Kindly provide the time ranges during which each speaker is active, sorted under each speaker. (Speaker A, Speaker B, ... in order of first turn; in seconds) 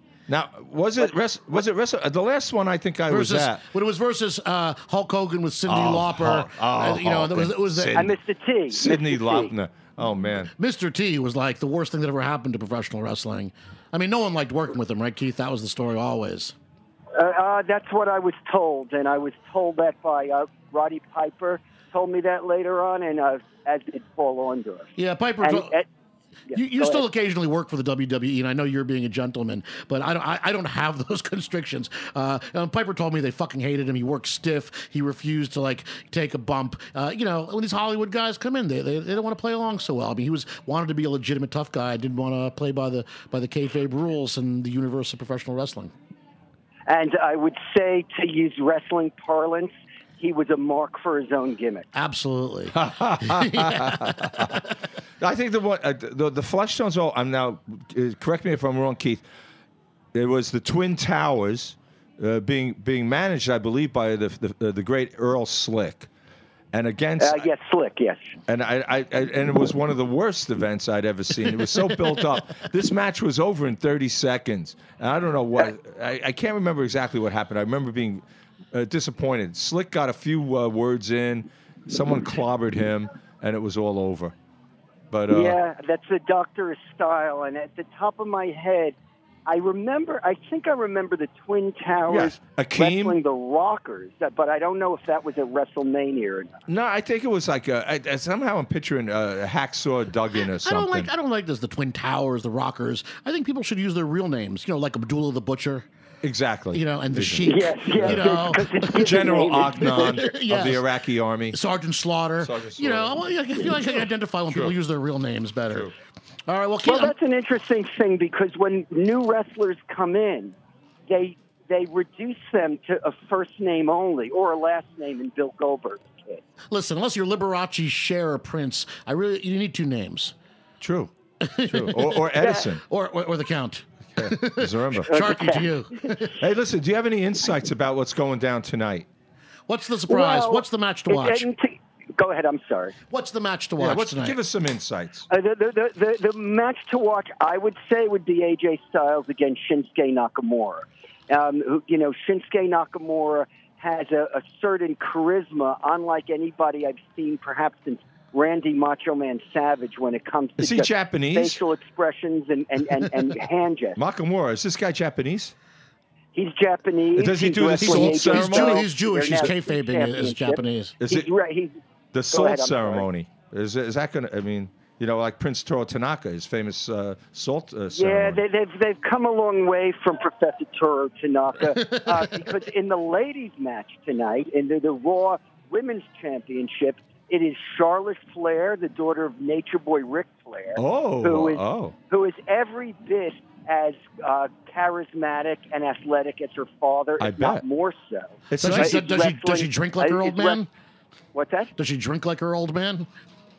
Speaker A: 0.3-3.6, 5.7-8.2, 8.7-10.5, 52.7-59.2, 60.1-66.1, 66.7-67.5, 68.5-84.3, 85.1-85.6, 92.1-93.2, 96.7-101.1, 106.2-108.4, 109.0-111.6, 112.4-113.7, 130.8-131.1, 131.7-132.8, 134.2-135.2, 136.4-139.1, 143.8-145.3, 160.6-161.6, 164.0-165.6, 167.2-168.8, 171.0-171.3, 172.1-178.4, 190.8-191.9, 197.2-197.6, 198.5-199.0
Speaker B: 3.1-8.1, 10.6-16.6, 25.0-25.8, 26.5-45.9, 51.9-54.6, 100.5-105.9, 106.7-110.9, 111.5-115.9, 116.5-117.2, 126.7-130.3, 131.4-136.4, 139.7-141.5, 143.1-144.4, 167.8-171.0, 181.7-182.3, 198.6-200.7, 201.8-203.1
Speaker C: 7.9-9.5, 17.1-24.9, 25.4-25.9, 26.5-27.0, 46.9-51.9, 67.2-68.4, 85.3-96.6, 107.5-110.0, 116.8-120.5, 121.1-126.4, 132.4-132.7, 135.1-136.1, 140.1-142.9, 145.3-164.0, 166.3-171.8, 172.3-173.1, 177.9-200.6, 201.3-201.7